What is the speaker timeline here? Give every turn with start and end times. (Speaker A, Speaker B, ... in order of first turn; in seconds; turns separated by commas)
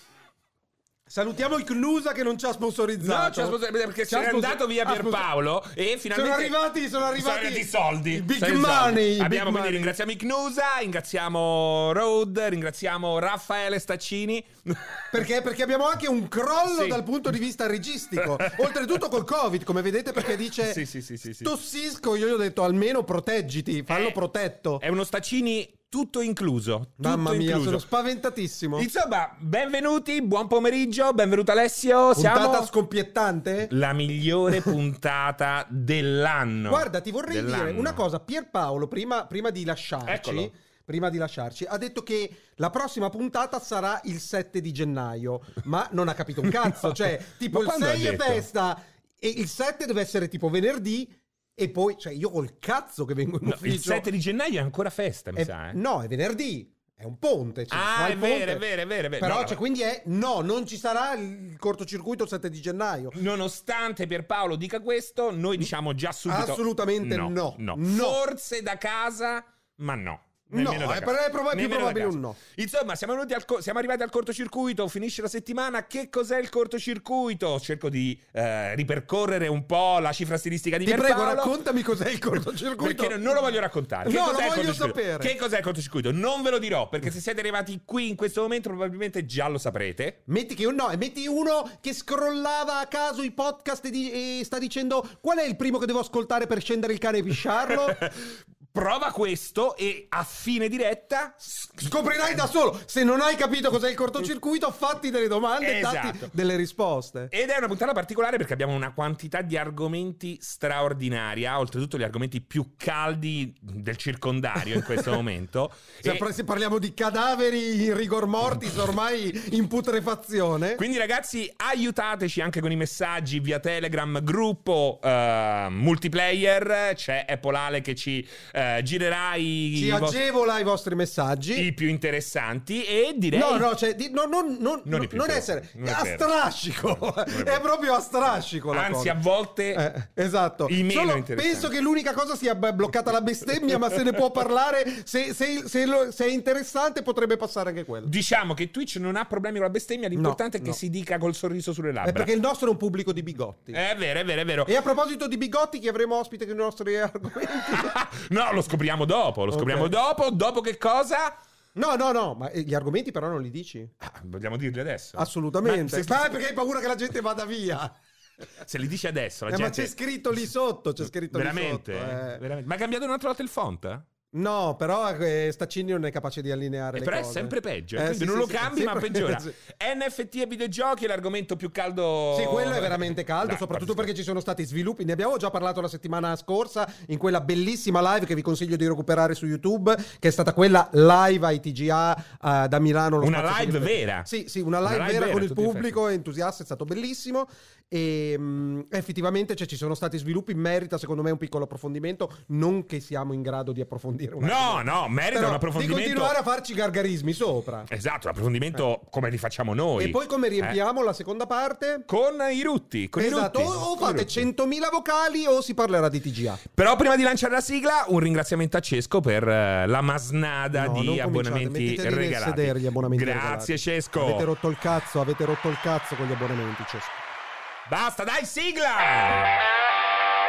Speaker A: 1.1-3.6, Speaker B: 3.0-6.5, Speaker A: 4.1-5.3, Speaker A: 6.1-9.9, Speaker B: 7.1-15.0, Speaker A: 15.1-20.8, Speaker B: 16.7-17.0, Speaker B: 18.2-18.7, Speaker B: 20.6-21.5, Speaker A: 21.4-24.8, Speaker B: 23.9-24.2, Speaker B: 24.8-27.8, Speaker A: 27.0-28.9, Speaker B: 28.8-32.7, Speaker A: 32.1-33.7, Speaker B: 33.6-38.0, Speaker A: 36.7-54.0, Speaker B: 40.0-40.5, Speaker B: 46.6-47.0, Speaker B: 47.5-48.5, Speaker B: 53.4-55.8, Speaker A: 55.4-58.6, Speaker B: 57.7-59.6, Speaker A: 59.2-63.1, Speaker B: 63.1-81.5, Speaker A: 66.2-68.2, Speaker A: 70.5-72.4, Speaker A: 80.8-83.4, Speaker B: 82.8-90.2, Speaker A: 84.0-85.3, Speaker A: 90.3-98.0, Speaker B: 97.9-102.4, Speaker A: 101.8-107.3, Speaker B: 105.6-106.3, Speaker B: 107.3-116.2, Speaker A: 116.0-120.8, Speaker B: 120.8-130.2, Speaker A: 129.7-131.7, Speaker B: 131.5-133.7, Speaker A: 133.3-139.1, Speaker B: 134.8-136.2, Speaker B: 137.2-137.6, Speaker B: 138.7-139.8, Speaker A: 139.7-148.1, Speaker B: 140.7-141.7, Speaker B: 148.1-152.3, Speaker A: 150.1-150.8, Speaker A: 152.0-153.8, Speaker B: 153.7-154.7, Speaker A: 154.7-157.9, Speaker B: 157.7-161.3, Speaker A: 159.5-159.9, Speaker A: 161.7-163.9, Speaker B: 164.0-166.3, Speaker A: 165.2-167.9, Speaker B: 168.6-169.9, Speaker A: 169.5-172.4, Speaker B: 171.3-174.0, Speaker A: 174.3-179.5, Speaker B: 176.9-184.1, Speaker A: 182.3-207.9, Speaker B: 193.2-194.3, Speaker B: 194.8-195.9, Speaker B: 204.4-206.3, Speaker B: 207.9-210.8, Speaker A: 210.0-212.1, Speaker B: 212.1-214.4, Speaker A: 213.2-216.6, Speaker B: 216.7-224.5, Speaker A: 220.7-227.2, Speaker B: 227.8-229.5